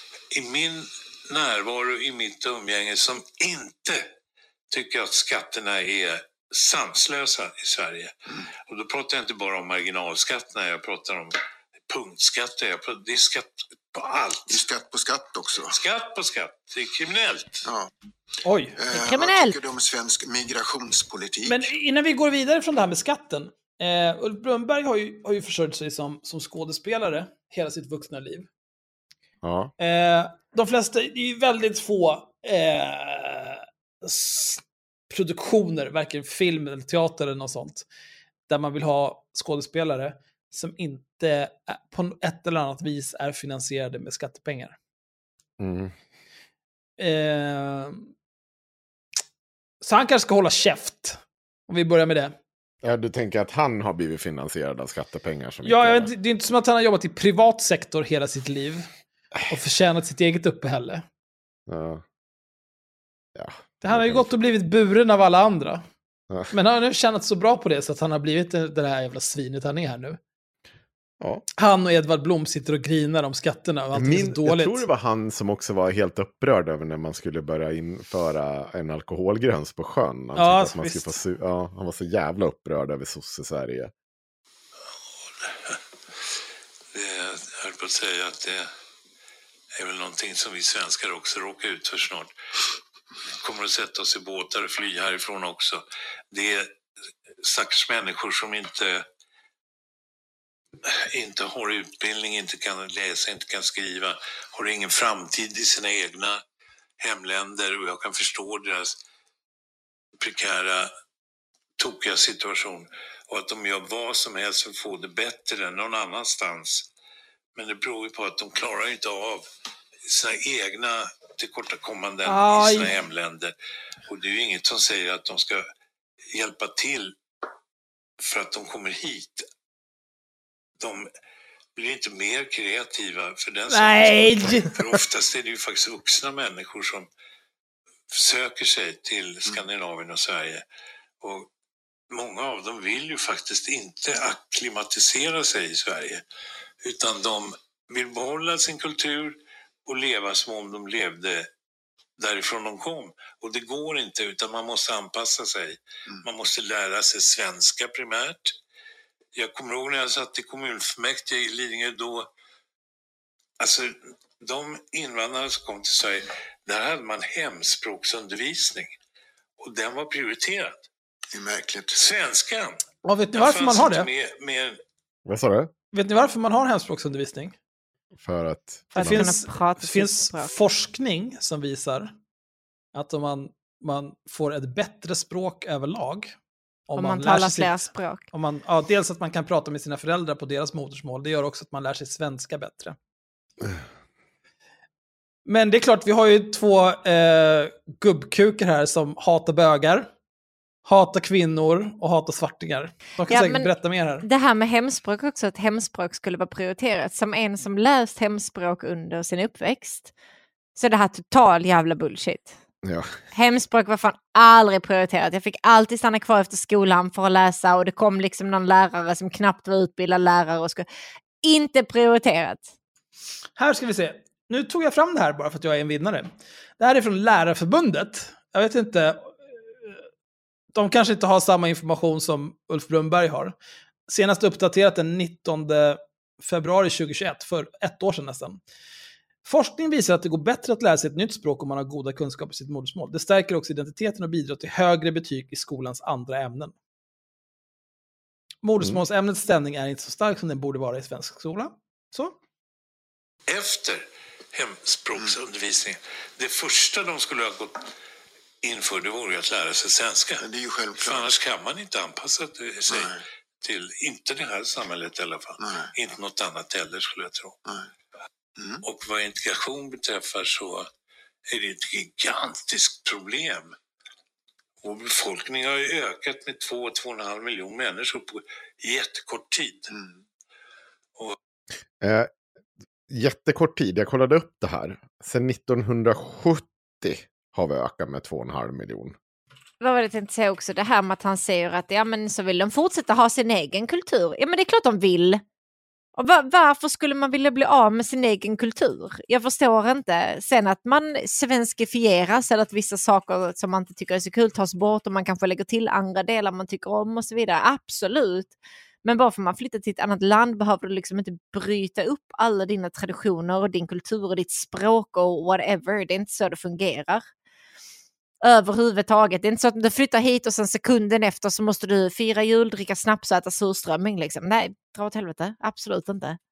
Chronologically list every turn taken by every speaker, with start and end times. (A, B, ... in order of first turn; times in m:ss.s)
0:00.3-0:04.1 A
0:04.7-0:08.2 A
0:08.7-0:14.6 A
0:14.5-0:15.8 B
0:15.7-0:17.7 A
0:17.6-0:17.9 B
0:18.4-0:18.8 C
0:18.8-0:21.7 B
0:18.9-0:19.6 D
0:21.5-0:28.5 C
0:29.4-0:29.7 E
0:29.8-0:37.8 C
0:38.5-0:44.8 C
0:45.6-0:45.9 E
0:47.0-0:48.1 C
0:49.8-0:52.4 C
0:52.8-0:56.1 E
0:55.6-0:58.9 C
0:59.5-1:01.0 C
1:01.7-1:02.0 E
1:03.4-1:04.3 E
1:03.8-1:05.8 C
1:06.5-1:10.2 C
1:11.6-1:14.8 C
1:13.9-1:23.9 E
1:20.4-1:21.2 C
1:25.4-1:25.8 A
1:26.9-1:28.7 A
1:29.7-1:32.3 A
1:33.4-1:36.8 A
1:37.4-1:39.1 A
1:40.8-1:46.4 A
1:47.0-1:49.0 A
1:50.2-1:50.9 A
1:51.8-1:56.9 A
1:57.6-1:59.5 A
2:00.0-2:03.5 A
2:02.2-2:03.0 C
2:04.1-2:05.6 A
2:06.3-2:07.2 A
2:08.2-2:09.5 A
2:10.8-2:11.1 A
2:11.8-2:17.1 A
2:13.7-2:14.8 C
2:18.1-2:20.6 A
2:21.2-2:21.5 A
2:22.1-2:26.2 A
2:26.8-2:31.5 A
2:32.2-2:38.6 A
2:39.3-2:42.3 A
2:43.6-2:49.0 A
2:49.6-2:50.9 A
2:51.3-2:52.0 B
2:51.9-2:52.8 A
2:53.0-2:54.1 C
2:53.3-2:54.8 A
2:55.3-2:55.7 E
2:55.9-2:57.6 C
2:58.2-2:59.3 E
2:59.0-3:00.5 D
2:59.0-3:02.1 C
3:02.9-3:06.4 C
3:06.9-3:13.0 C
3:07.0-3:08.2 D
3:15.5-3:20.1 C
3:20.9-3:24.2 C
3:23.3-3:30.1 D
3:30.8-3:32.6 D
3:32.8-3:33.1 E
3:33.3-3:40.9 D
3:41.4-3:42.7 D
3:43.6-3:50.0 C
3:50.7-3:53.5 C
3:54.1-3:58.6 C
3:59.4-4:06.7 C
4:08.6-4:12.4 C
4:13.5-4:17.9 A
4:18.6-4:20.4 A
4:20.4-4:21.4 B
4:21.0-4:27.6 A
4:22.9-4:23.2 B
4:25.6-4:25.9 B
4:28.6-4:28.8 B
4:28.8-4:30.9 A
4:31.5-4:33.8 A
4:34.8-4:39.9 A
4:39.9-4:40.2 B
4:42.0-4:42.3 E
4:43.1-4:49.2 E
4:49.8-4:55.4 D
4:56.2-5:17.3 D
5:18.4-5:26.4 D